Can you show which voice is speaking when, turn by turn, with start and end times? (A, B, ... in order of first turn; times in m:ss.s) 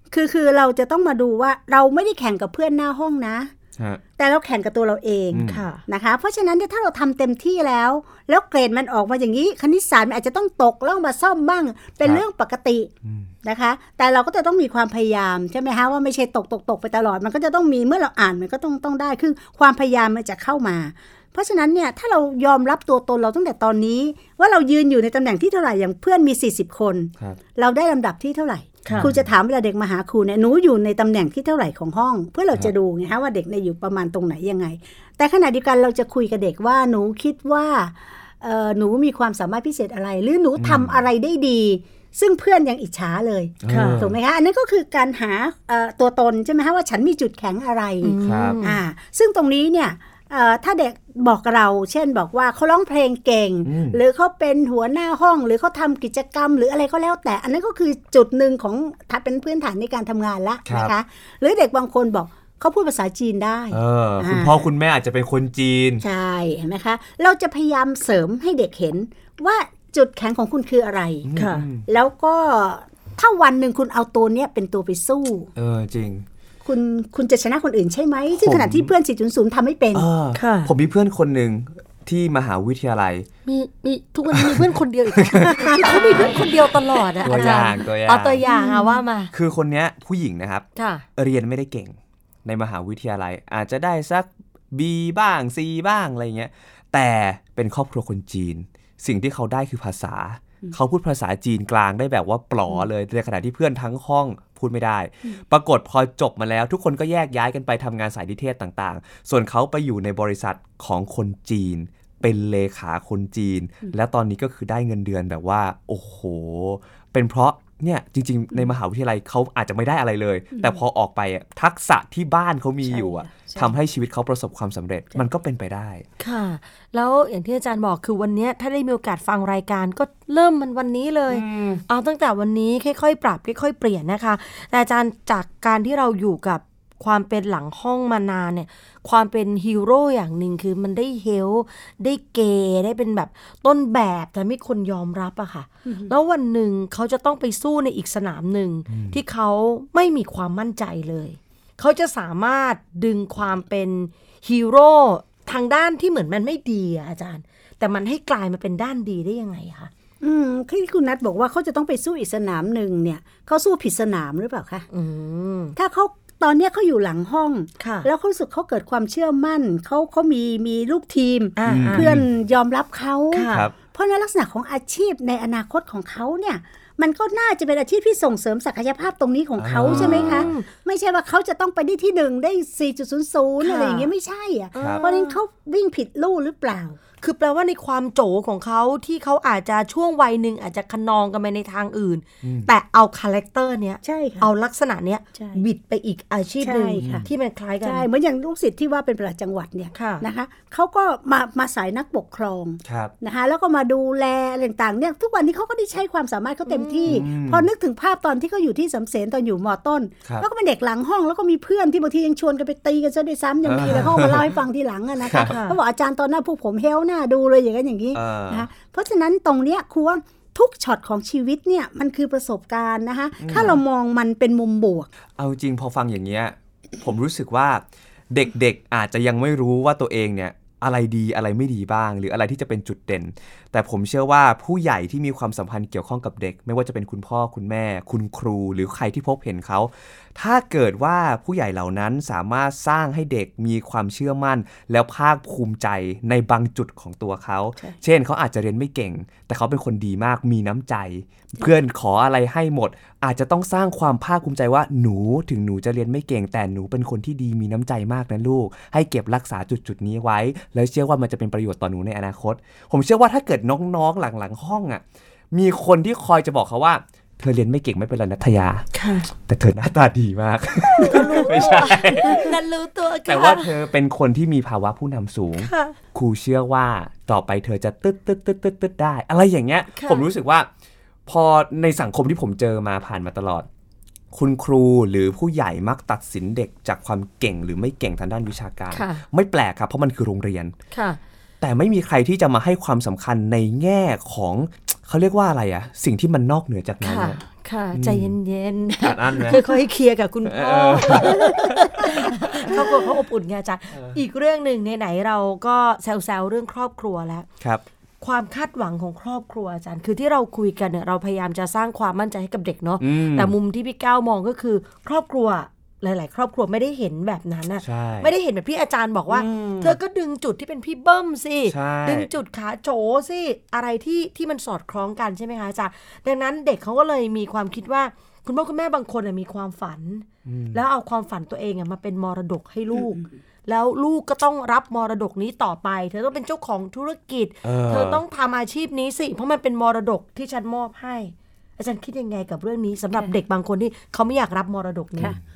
0:00.1-0:03.5 A
0:04.2-0:12.9 A
0:05.3-0:05.6 B
0:05.5-0:05.8 C
0:13.4-1:04.7 A
0:28.8-0:29.1 C
0:28.9-0:29.3 B
0:40.6-0:41.0 B
0:43.6-0:44.2 B
0:43.7-0:44.0 C
0:48.0-0:48.8 C
0:48.2-0:48.6 B
0:53.6-0:54.0 B
1:00.6-1:00.9 B
1:03.7-1:06.0 B
1:06.0-1:11.3 A
1:11.2-1:11.8 B
1:11.4-1:11.7 C
1:11.8-1:15.5 A
1:15.6-1:16.2 B
1:16.6-1:20.1 A
1:18.4-1:18.9 B
1:19.9-1:23.3 B
1:20.3-1:20.7 C
1:23.4-1:29.3 C
1:24.3-1:26.4 B
1:25.6-1:26.4 A
1:27.2-1:28.4 B
1:27.2-1:27.7 A
1:28.4-1:29.0 A
1:29.3-1:30.6 B
1:30.8-1:31.0 C
1:31.2-2:06.0 B
2:00.5-2:00.8 A
2:02.8-2:03.7 A
2:06.2-2:39.9 C
2:11.3-2:11.8 A
2:25.8-2:26.1 A
2:28.9-2:29.2 B
2:40.2-2:44.9 A
2:44.9-2:45.7 C
2:45.8-3:07.0 A
2:47.8-2:48.1 C
2:51.6-2:52.1 C
2:51.6-2:52.2 B
2:53.3-2:53.7 C
2:59.6-3:00.5 B
2:59.8-3:00.7 C
3:03.6-3:04.1 C
3:04.7-3:05.4 C
3:04.8-3:05.0 B
3:07.2-3:18.1 C
3:12.4-3:12.7 B
3:14.0-3:14.5 A
3:15.4-3:15.6 A
3:16.6-3:17.3 A
3:17.0-3:17.3 B
3:17.8-3:45.1 A
3:19.9-3:20.2 C
3:22.8-3:23.1 B
3:26.7-3:27.2 C
3:27.1-3:27.7 B
3:33.6-3:34.5 B
3:35.2-3:35.5 B
3:35.4-3:35.8 C
3:38.1-3:38.7 B
3:43.4-3:43.8 B
3:45.4-4:28.8 B
4:28.9-4:29.3 C
4:29.4-4:32.5 B
4:31.0-4:33.7 C
4:33.2-4:40.7 B
4:35.6-4:36.0 C
4:39.9-4:40.2 C
4:41.3-4:43.7 B
4:44.3-4:50.7 B
4:48.9-4:49.2 C
4:50.9-4:51.2 C
4:51.6-4:57.4 B
4:57.0-5:07.5 C
4:57.9-4:58.4 B
4:59.0-4:59.6 B
5:00.4-5:02.8 B
5:08.2-5:45.3 C
5:13.0-5:13.5 B
5:17.8-5:18.3 B
5:19.3-5:20.0 B
5:21.7-5:22.3 B
5:30.4-5:30.8 B
5:32.9-5:33.2 A
5:37.6-5:38.2 B